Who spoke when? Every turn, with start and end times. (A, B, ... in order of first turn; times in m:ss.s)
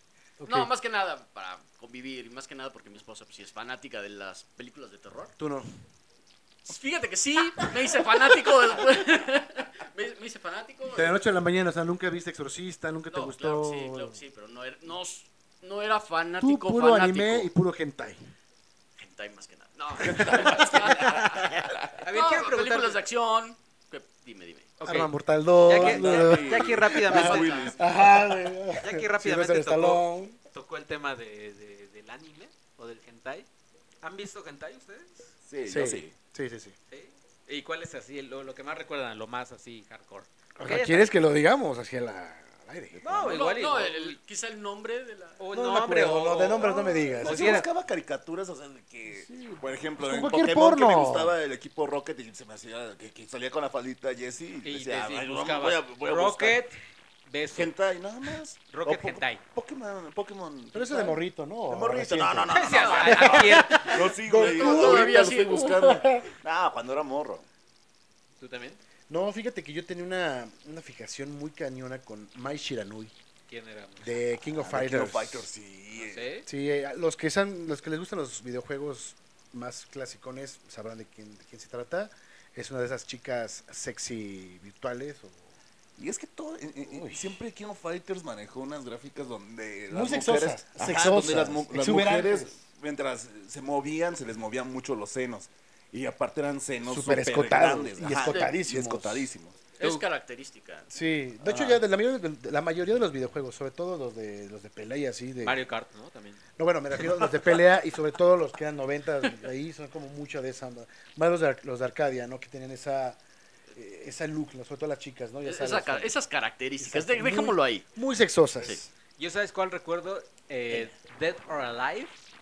0:00.4-0:00.7 A
0:00.5-0:05.4 B
0:05.4-0:05.7 A
0:06.6-0:11.2 B
0:10.9-0:14.2 A
0:13.1-0:17.5 B
0:16.4-0:18.2 A
0:19.0-0:21.5 B
0:20.1-0:21.4 A
0:20.4-0:20.9 C
0:20.6-0:21.2 D
0:22.0-0:23.0 D
0:22.1-0:24.7 B
0:24.8-0:25.1 D
0:24.8-0:30.4 A
0:25.6-0:27.8 D
0:25.7-0:28.2 C
0:27.1-0:27.8 B
0:28.8-0:33.5 D
0:34.0-0:35.3 D
0:35.4-0:36.1 C
0:35.7-0:36.8 A
0:36.9-0:41.2 D
0:40.6-0:43.4 A
0:43.0-0:44.2 D
0:43.3-0:45.4 B
0:45.4-0:47.7 D
0:45.5-0:47.6 A
0:46.6-0:56.6 C
0:49.1-0:51.3 A
0:54.6-0:57.7 D
0:57.6-1:07.5 C
0:58.7-0:59.4 D
1:00.7-1:06.3 A
1:02.5-1:03.9 D
1:02.6-1:06.0 B
1:08.4-1:08.8 D
1:09.1-1:13.1 A
1:13.5-1:14.2 D
1:14.0-1:15.5 A
1:14.4-1:16.3 C
1:15.9-1:16.5 D
1:16.5-1:25.5 A
1:26.0-1:39.7 C
1:26.8-1:27.4 A
1:29.9-1:32.6 A
1:36.8-1:39.3 A
1:38.2-1:38.6 B
1:39.8-1:40.9 B
1:39.8-1:40.1 D
1:40.9-1:45.6 A
1:41.4-1:41.8 C
1:45.4-1:46.4 D
1:46.6-1:53.2 A
1:53.7-1:56.1 A
1:55.4-1:57.9 B
1:56.8-1:58.9 A
1:59.2-2:02.2 D